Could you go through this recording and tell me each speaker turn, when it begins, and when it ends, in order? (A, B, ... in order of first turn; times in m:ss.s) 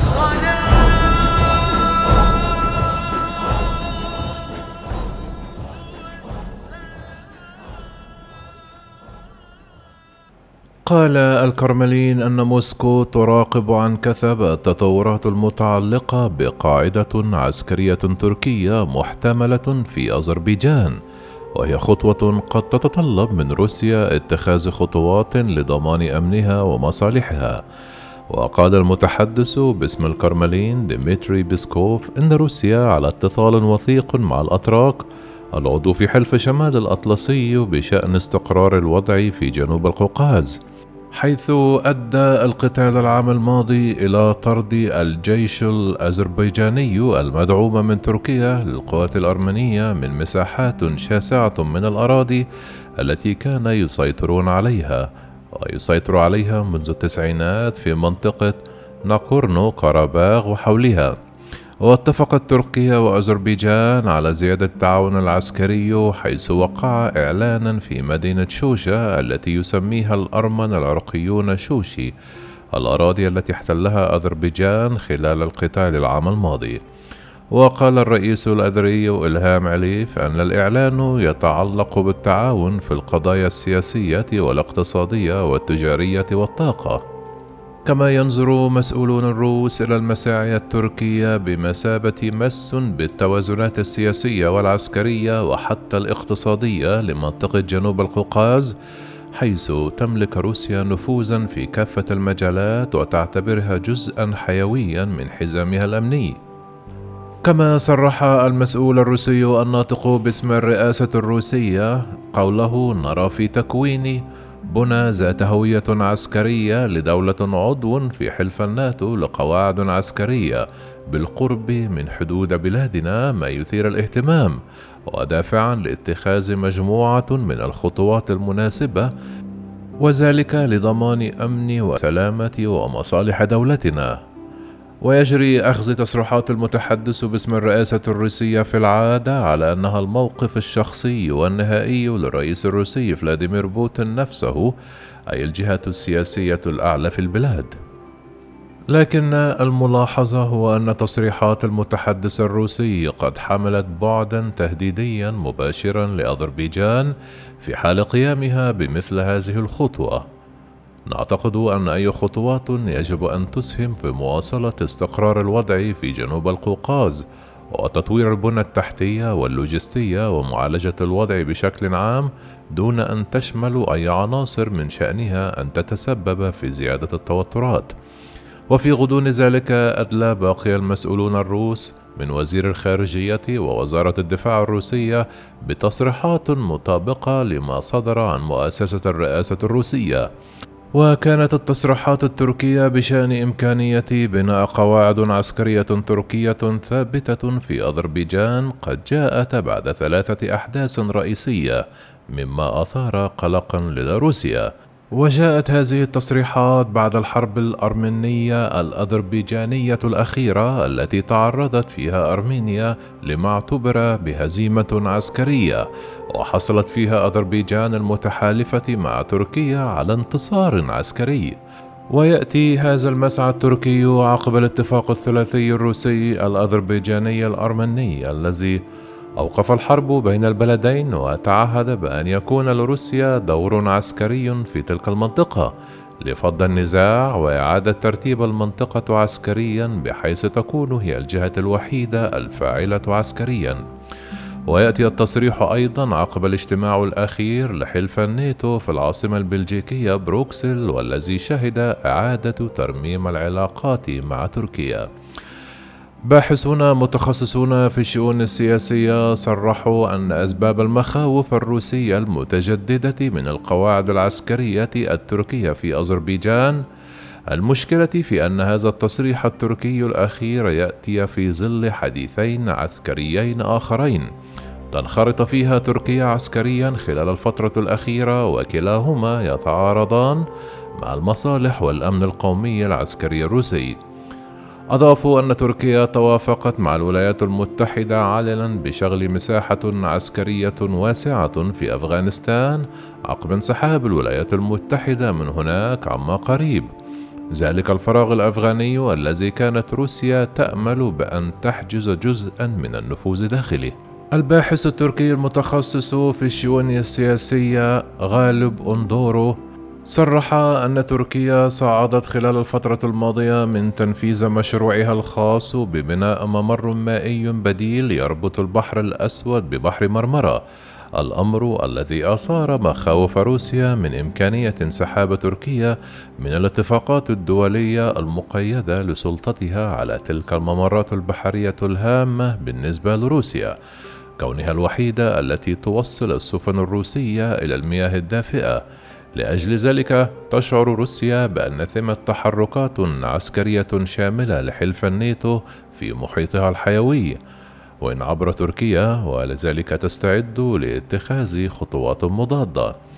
0:10.9-0:21.0 A
0:21.6-0:27.6 A
0:28.3-0:35.0 A
0:35.5-0:40.6 A
0:41.1-0:52.4 A
0:53.0-1:01.2 A
1:01.8-1:12.1 A
1:12.7-1:16.8 A
1:17.5-1:27.0 A
1:27.8-1:38.7 A
1:39.4-1:46.4 A
1:47.4-2:09.1 A
2:10.0-2:14.2 A
2:15.0-2:24.7 A
2:25.3-2:27.8 A
2:28.9-2:40.2 A
2:41.1-2:57.9 A
2:58.7-3:10.3 A
3:10.9-3:41.6 A
3:42.1-3:48.8 A
3:49.4-4:03.8 A
4:04.7-4:15.1 A
4:16.3-4:26.8 A
4:27.5-4:34.3 A
4:34.9-4:40.4 A
4:41.0-4:44.0 A
4:44.9-4:56.9 A
4:57.5-5:20.6 A
5:21.2-5:33.8 A
5:34.4-5:38.8 A
5:39.3-5:47.4 A
5:48.0-5:52.9 A